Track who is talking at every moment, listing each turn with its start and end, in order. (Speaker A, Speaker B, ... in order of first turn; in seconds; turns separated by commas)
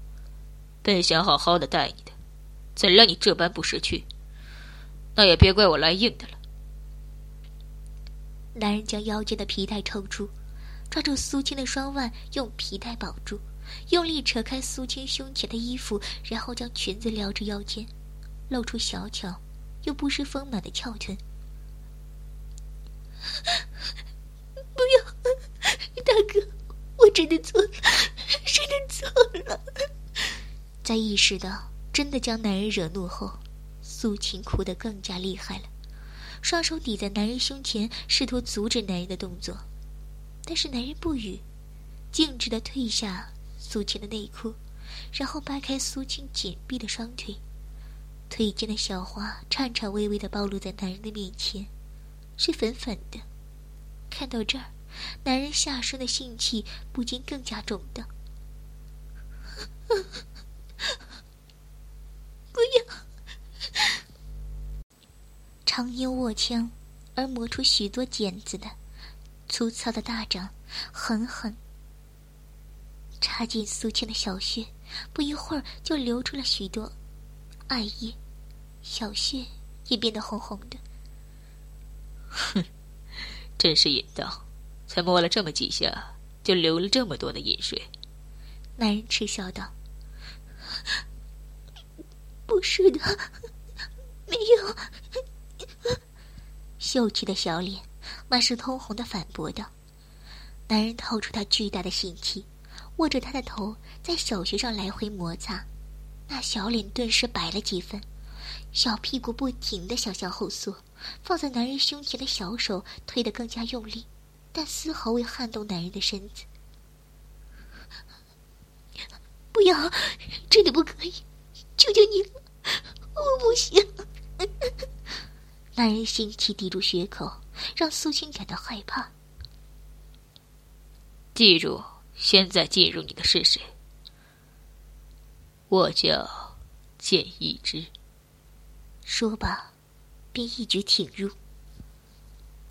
Speaker A: 0.8-2.1, Speaker A: 2.8-4.1, Speaker A: 5.2-6.4, Speaker B: 8.5-10.3, Speaker B: 10.9-17.9, Speaker B: 18.5-21.2, Speaker B: 24.8-29.6, Speaker B: 30.8-35.7, Speaker B: 36.4-39.6, Speaker B: 40.5-41.4, Speaker B: 42.1-44.6, Speaker B: 45.1-47.4, Speaker B: 48.3-51.7, Speaker B: 52.4-53.2, Speaker B: 54.1-58.1, Speaker B: 62.5-63.0, Speaker B: 65.7-68.8, Speaker B: 69.5-71.6, Speaker B: 73.2-77.0, Speaker B: 77.7-78.2, Speaker B: 78.8-80.8, Speaker A: 82.4-82.6, Speaker A: 83.6-87.9, Speaker B: 88.8-89.7, Speaker B: 92.5-93.3, Speaker B: 94.3-94.9, Speaker B: 96.8-99.7, Speaker B: 100.7-105.7, Speaker B: 106.3-108.1, Speaker B: 108.7-116.5, Speaker B: 119.5-121.2, Speaker B: 121.8-123.9, Speaker B: 125.8-129.1, Speaker A: 131.3-133.7, Speaker A: 135.7-137.9, Speaker B: 139.1-139.7, Speaker B: 140.3-141.3